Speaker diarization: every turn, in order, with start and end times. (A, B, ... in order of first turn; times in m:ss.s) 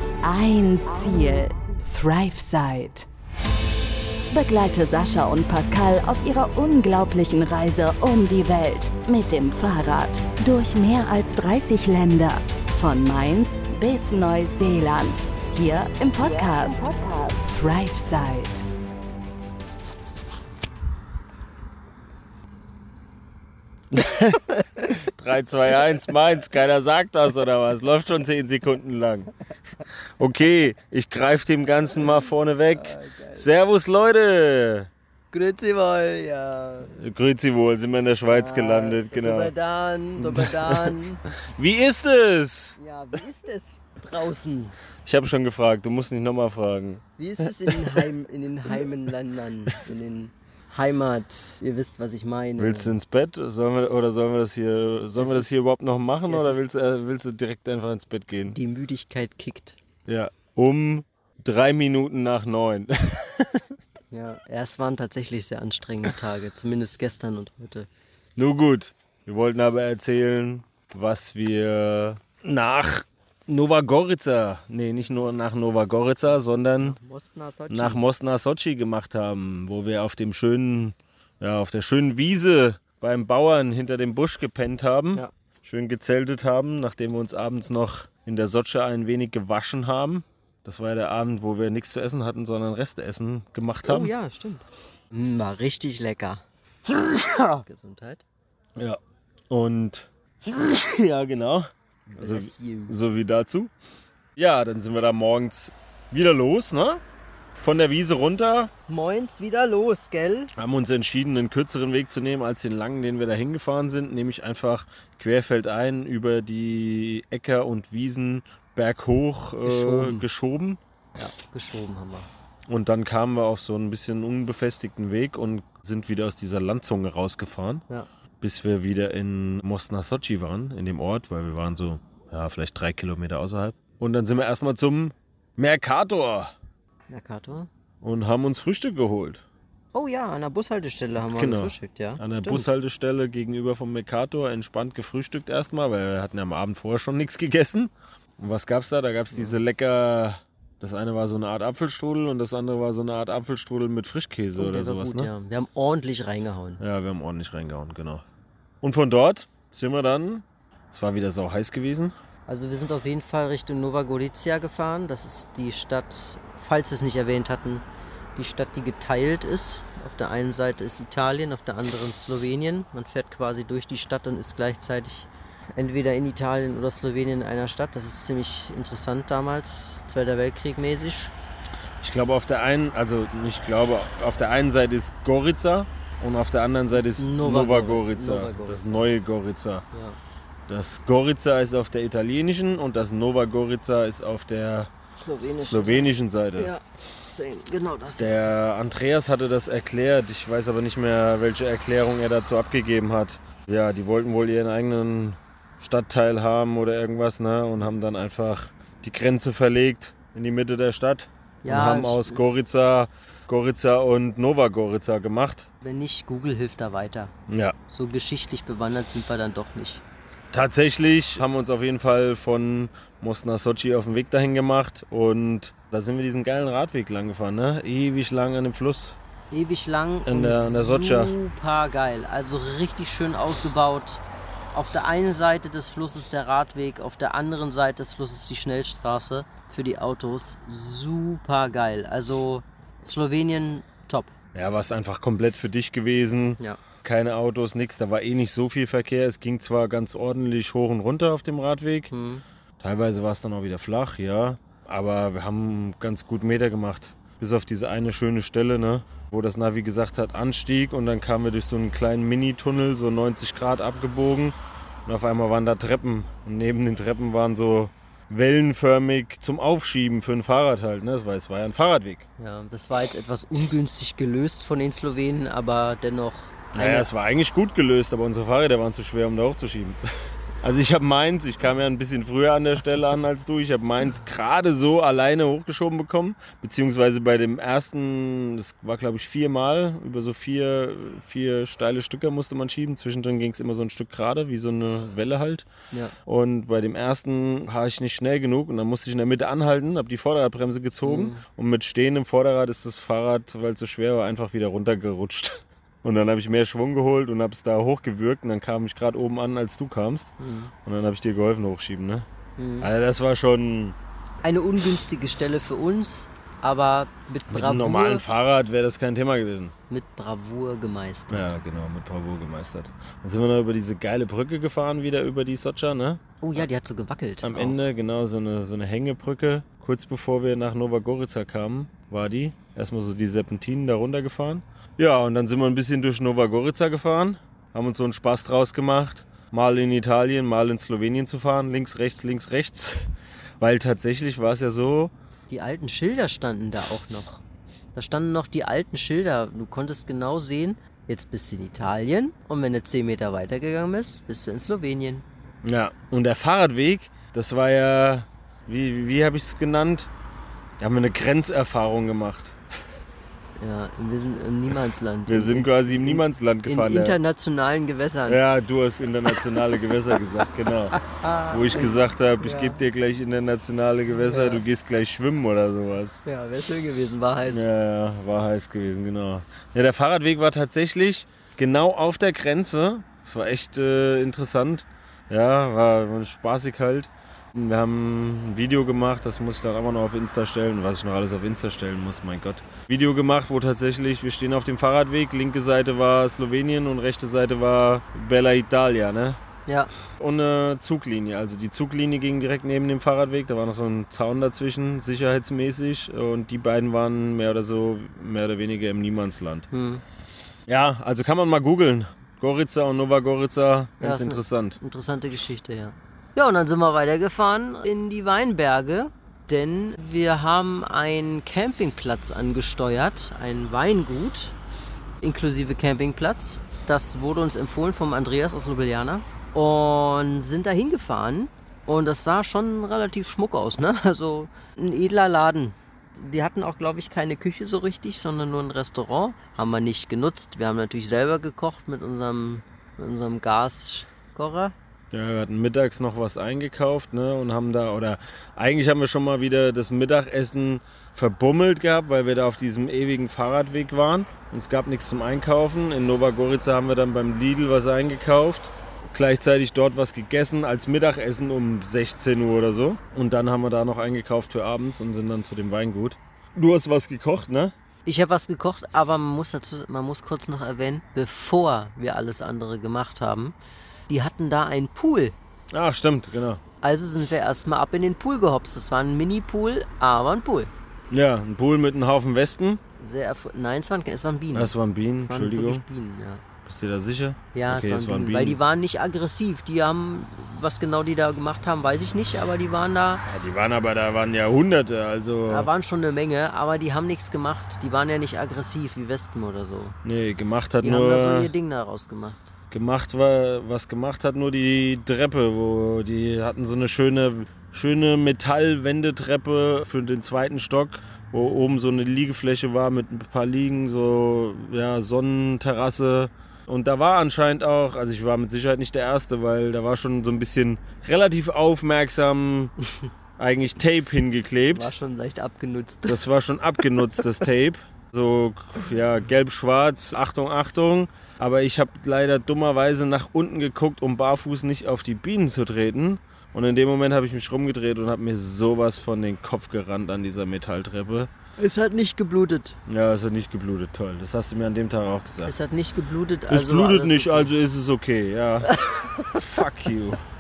0:00.2-0:03.1 A
0:04.3-0:18.6 A
0:23.9-0:29.3 B
0:30.2-0:34.9 B
0:32.7-0:33.5 C
0:35.3-0:36.9 C
0:36.9-0:39.5 B
0:38.3-0:41.2 C
0:40.2-0:42.8 B
0:42.8-0:44.8 C
0:45.0-0:48.1 B
0:47.2-0:53.0 C
0:52.6-0:58.6 B
0:55.2-0:55.5 C
0:56.3-0:56.6 C
0:58.4-0:59.8 C
1:00.1-1:03.7 B
1:04.1-1:07.9 C
1:08.4-1:17.0 B
1:16.8-1:18.0 C
1:17.7-1:34.1 B
1:33.8-1:36.4 C
1:36.9-1:37.6 B
1:37.6-1:38.2 C
1:39.5-1:43.7 B
1:42.2-1:43.0 C
1:44.4-1:47.0 B
1:47.6-1:48.7 B
1:48.9-1:50.5 C
1:50.6-2:00.8 B
1:59.6-2:00.3 C
2:01.2-2:02.3 C
2:02.7-2:07.8 B
2:08.4-2:16.5 B
2:17.1-2:17.7 C
2:18.0-2:19.4 B
2:20.0-2:22.7 C
2:21.3-2:35.3 B
2:29.3-2:29.6 C
2:34.6-2:36.8 C
2:36.8-2:38.2 B
2:38.8-2:42.2 B
2:42.5-2:47.8 C
2:48.4-3:01.3 C
3:02.0-3:09.8 B
3:06.9-3:09.1 C
3:09.9-3:10.2 C
3:10.7-3:14.9 B
3:15.2-3:18.5 C
3:15.6-3:16.8 B
3:18.2-3:35.7 B
3:31.6-3:32.4 C
3:35.8-3:37.3 C
3:37.5-3:37.8 B
3:37.9-3:40.0 C
3:40.5-3:49.2 B
3:49.5-4:04.3 C
3:50.3-3:51.4 B
4:04.5-4:12.1 B
4:12.1-4:12.4 C
4:12.8-4:32.3 B
4:32.4-4:37.1 C
4:36.7-4:55.7 B
4:56.3-5:10.3 B
5:01.0-5:01.4 C
5:10.4-5:10.7 C
5:10.8-5:12.3 B
5:12.6-5:12.9 C
5:12.8-5:14.0 B
5:14.4-5:18.2 C
5:17.5-5:19.7 B
5:19.9-5:21.5 C
5:21.3-5:26.2 B
5:26.4-5:27.8 C
5:27.4-5:43.1 B
5:43.6-5:45.1 B
5:45.5-5:47.4 C
5:48.0-5:55.2 C
5:55.6-6:00.1 B
6:00.8-6:02.6 B
6:03.6-6:08.4 C
6:05.3-6:07.2 B
6:08.3-6:16.2 B
6:10.9-6:12.8 C
6:14.3-6:14.6 C
6:16.2-6:17.6 C
6:17.5-6:39.4 B
6:39.7-6:39.9 C
6:40.2-6:49.7 B
6:49.7-6:50.0 C
6:50.7-6:54.8 B
6:54.0-7:04.6 C
7:05.2-7:24.8 C
7:25.1-7:47.7 B
7:48.1-7:53.6 C
7:54.1-7:55.4 C
7:55.7-7:56.6 B
7:56.8-8:00.7 C
8:01.1-8:02.8 B
8:03.0-8:06.4 C
8:04.5-8:05.8 B
8:06.6-8:08.6 B
8:07.5-8:13.2 C
8:13.2-8:15.7 B
8:15.5-8:20.0 C
8:20.0-8:21.5 B
8:20.8-8:22.5 C
8:22.7-8:42.7 B
8:43.4-8:44.9 B
8:44.7-8:46.3 C
8:46.1-9:01.3 B
9:01.6-9:02.8 C
9:02.9-9:05.6 B
9:05.4-9:07.5 C
9:06.5-9:08.7 B
9:08.7-9:09.6 C
9:09.3-9:10.2 B